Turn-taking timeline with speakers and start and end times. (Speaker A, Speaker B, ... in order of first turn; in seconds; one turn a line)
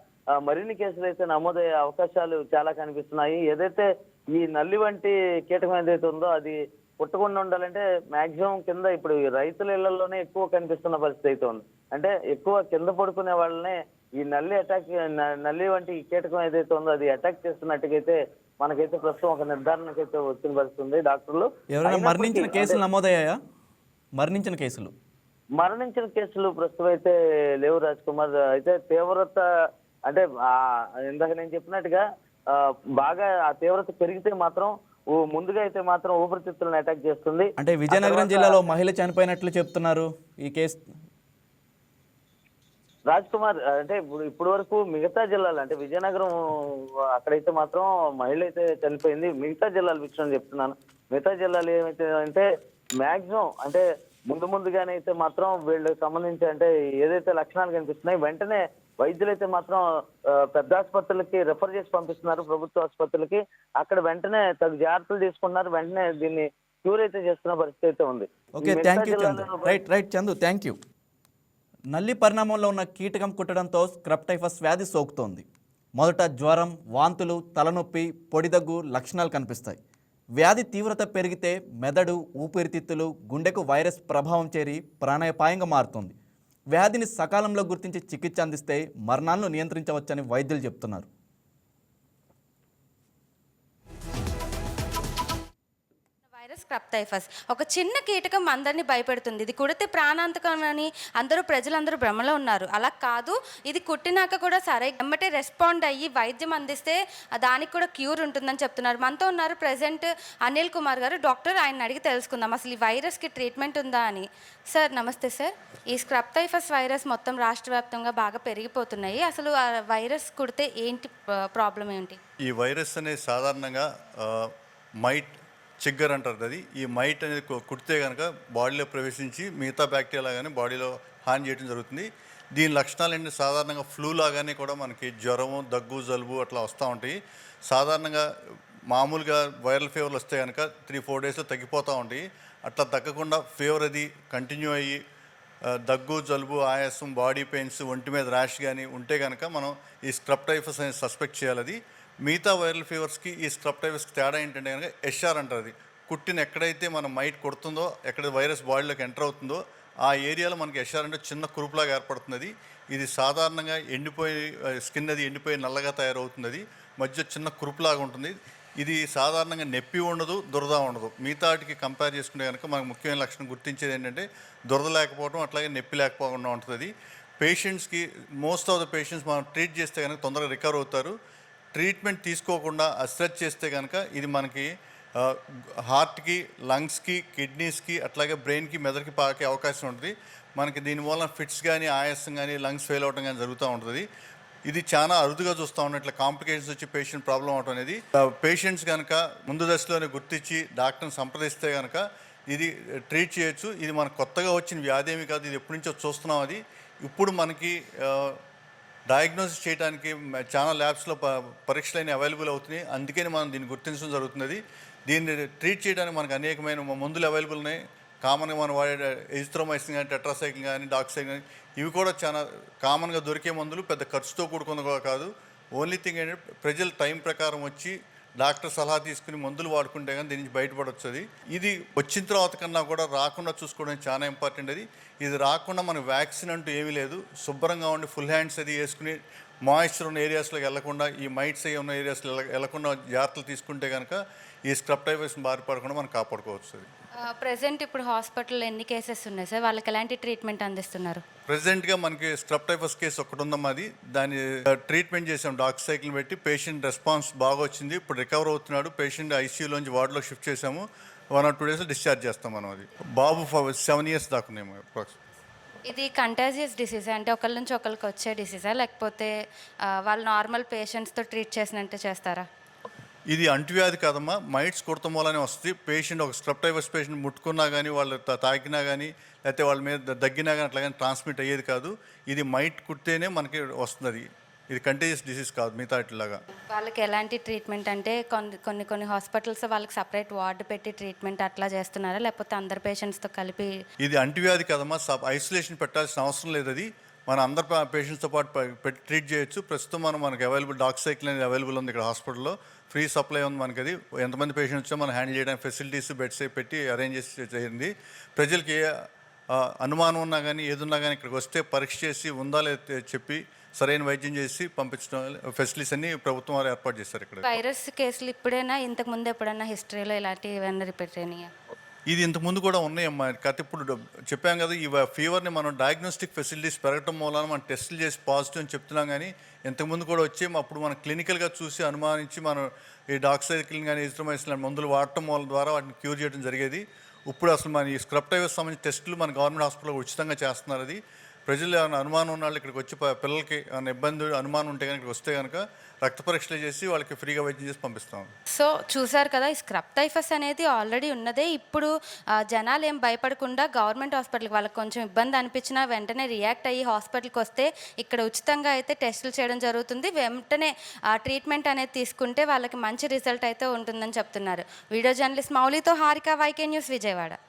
Speaker A: 0.4-22.8
Speaker B: 21.8-23.4
Speaker B: 24.2-24.9
Speaker A: 25.6-29.4
Speaker A: 30.1-38.6
Speaker B: 37.6-40.9
Speaker A: 43.1-46.4
Speaker A: 47.1-52.5
Speaker A: 53.0-59.8
Speaker A: 60.4-69.8
Speaker B: 68.6-70.8
Speaker B: 71.9-75.5
Speaker B: 76.0-79.8
Speaker B: 80.4-86.2
Speaker B: 86.7-91.1
Speaker C: 96.3-122.2
Speaker D: 122.4-124.5
Speaker D: 125.0-138.3
Speaker D: 138.9-145.0
Speaker D: 145.7-181.2
Speaker D: 181.7-185.4
Speaker D: 185.9-194.1
Speaker D: 194.7-208.4
Speaker D: 209.1-246.9
Speaker C: 247.4-251.2
Speaker D: 251.5-265.2
Speaker C: 265.9-269.3
Speaker C: 270.1-272.5
Speaker D: 273.3-286.4
Speaker C: 286.7-293.7
Speaker D: 294.0-308.8
Speaker D: 309.5-317.6
Speaker C: 317.4-321.5
Speaker D: 322.1-348.3
Speaker C: 348.6-351.9
Speaker C: 352.5-367.4